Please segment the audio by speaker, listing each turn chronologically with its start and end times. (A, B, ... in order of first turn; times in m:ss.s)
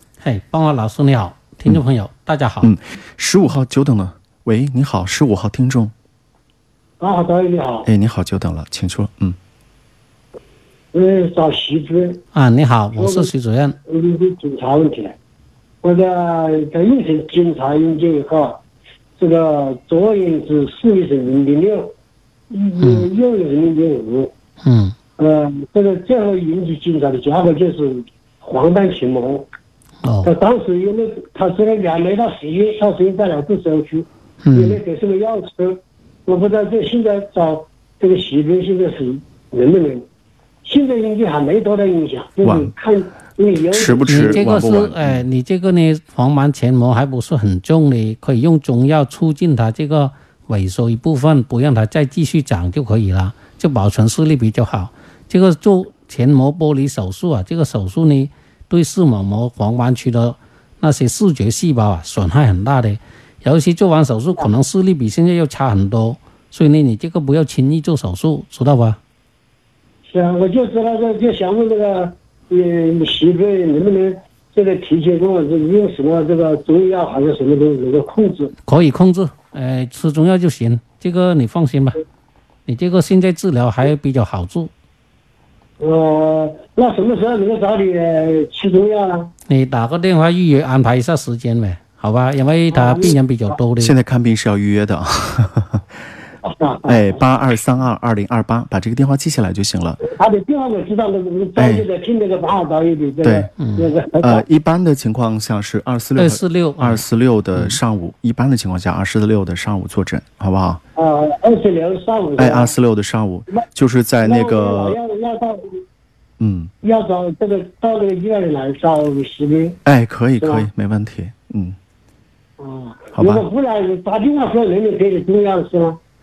0:00.2-0:02.7 A
0:02.6-0:05.9 B
0:07.0-0:07.9 C
0:07.8-0:09.4 B
0:10.9-0:12.2 C
0:12.3-0:13.8 A
0:13.0-0:13.3 C
0:13.8-0:15.2 C
0:15.8-0:18.6 C
0:19.2-0:21.9 C
0:22.5-0:24.3 C
0:22.8-0:23.1 A
0:24.6-0:24.9 A
0:25.2-0:29.5 C
0:30.0-0:30.3 A
0:30.2-0:40.0 C
0:34.4-0:34.8 A
0:40.6-0:44.4 C
0:42.4-0:42.7 B
0:43.7-0:45.2 B
0:44.1-1:09.0 A
1:10.1-1:18.5 C
1:18.6-1:22.0 A
1:22.6-1:24.7 A
1:25.8-1:29.3 C
1:29.5-1:33.9 A
1:32.7-1:33.2 C
1:33.8-1:35.8 B
1:36.4-1:37.1 C
1:36.8-1:40.0 B
1:40.0-1:44.4 C
1:41.6-1:41.9 B
1:43.2-1:43.5 B
1:43.6-1:43.9 A
1:44.2-1:50.8 B
1:46.2-1:47.0 A
1:51.0-1:52.7 C
1:52.4-1:55.0 B
1:54.2-1:55.6 C
1:56.4-1:56.7 B
1:56.8-1:59.8 C
1:59.8-2:01.8 B
2:00.4-2:00.7 C
2:02.6-2:06.0 C
2:03.1-2:03.4 B